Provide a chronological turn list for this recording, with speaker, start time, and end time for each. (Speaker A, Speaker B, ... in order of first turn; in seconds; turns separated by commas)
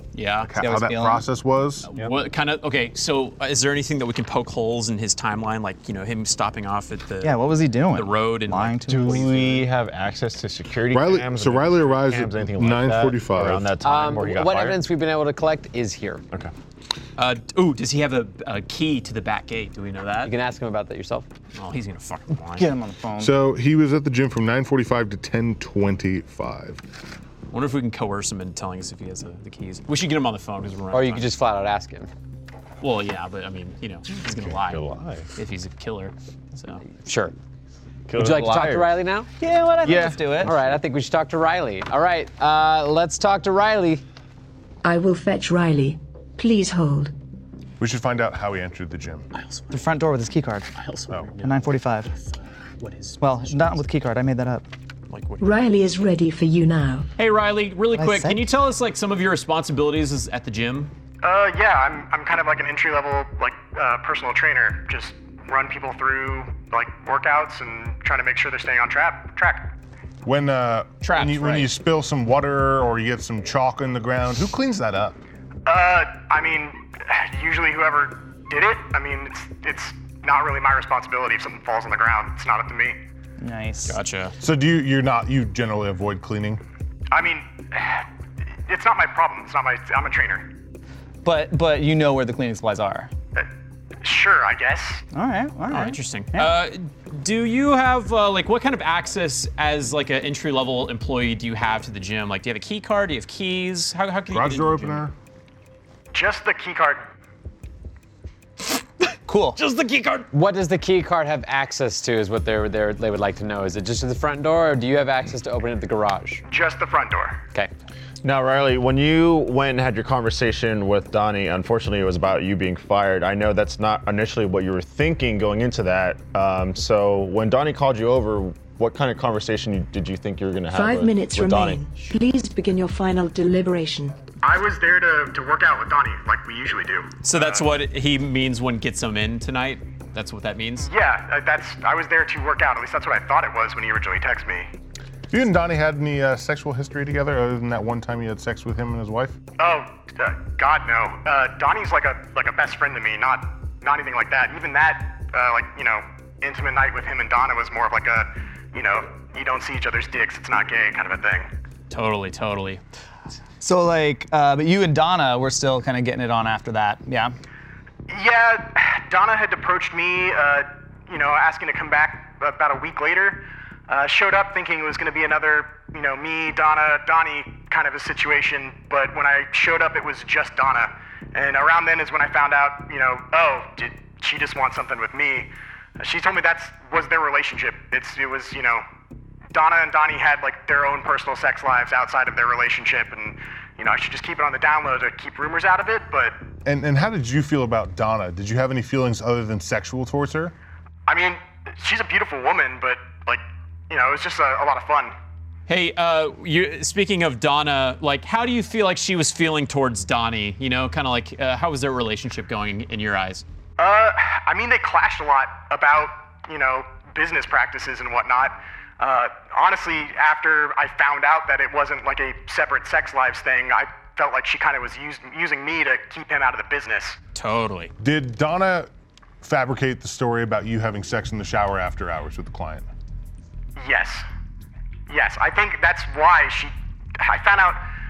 Speaker A: 0.1-0.5, Speaker B: 0.4-1.9, Speaker C: 0.6-1.3, Speaker A: 1.9-9.7, Speaker C: 7.2-9.5, Speaker D: 8.9-14.8, Speaker B: 10.9-13.7, Speaker E: 13.8-16.2, Speaker A: 17.2-20.3, Speaker E: 20.2-21.3, Speaker A: 21.6-22.7, Speaker C: 22.4-23.3, Speaker B: 23.2-26.8, Speaker A: 27.5-31.3, Speaker E: 30.9-32.1, Speaker A: 32.8-34.8, Speaker D: 34.3-35.3, Speaker A: 35.4-36.8, Speaker E: 37.0-37.3, Speaker D: 38.1-39.0, Speaker E: 38.1-39.3, Speaker C: 39.4-40.5, Speaker D: 39.8-40.7, Speaker E: 40.4-44.0, Speaker F: 44.8-47.1, Speaker B: 47.8-49.3, Speaker A: 49.4-49.7, Speaker C: 49.7-50.7, Speaker A: 50.8-53.9, Speaker C: 51.4-52.1, Speaker C: 53.2-54.7, Speaker A: 55.1-55.5, Speaker F: 55.4-57.1, Speaker A: 57.2-60.9, Speaker C: 57.9-58.5, Speaker G: 61.2-69.7, Speaker B: 70.2-75.2, Speaker A: 71.0-71.7, Speaker G: 75.7-83.0, Speaker C: 83.4-84.0, Speaker A: 83.9-84.3, Speaker B: 84.4-86.6, Speaker G: 87.1-88.1, Speaker G: 88.7-90.5, Speaker C: 91.2-93.1, Speaker G: 94.0-95.0, Speaker C: 95.1-96.6, Speaker A: 95.7-105.0, Speaker B: 104.3-105.1, Speaker G: 106.1-107.1, Speaker C: 109.3-109.6, Speaker A: 109.6-110.3, Speaker E: 110.3-116.4, Speaker G: 116.5-117.4, Speaker D: 118.2-131.8, Speaker F: 130.7-134.2, Speaker G: 134.4-137.7, Speaker A: 137.2-140.9, Speaker G: 140.8-144.7, Speaker B: 145.3-149.4, Speaker G: 149.6-161.5, Speaker A: 161.9-162.8, Speaker C: 163.6-167.3, Speaker G: 168.1-188.8, Speaker G: 189.5-196.4, Speaker B: 196.7-200.6, Speaker G: 201.1-205.1, Speaker A: 205.7-213.4, Speaker G: 213.8-227.2, Speaker A: 227.3-227.9, Speaker B: 228.0-228.9, Speaker B: 229.4-232.9, Speaker G: 233.8-234.3, Speaker G: 235.1-237.8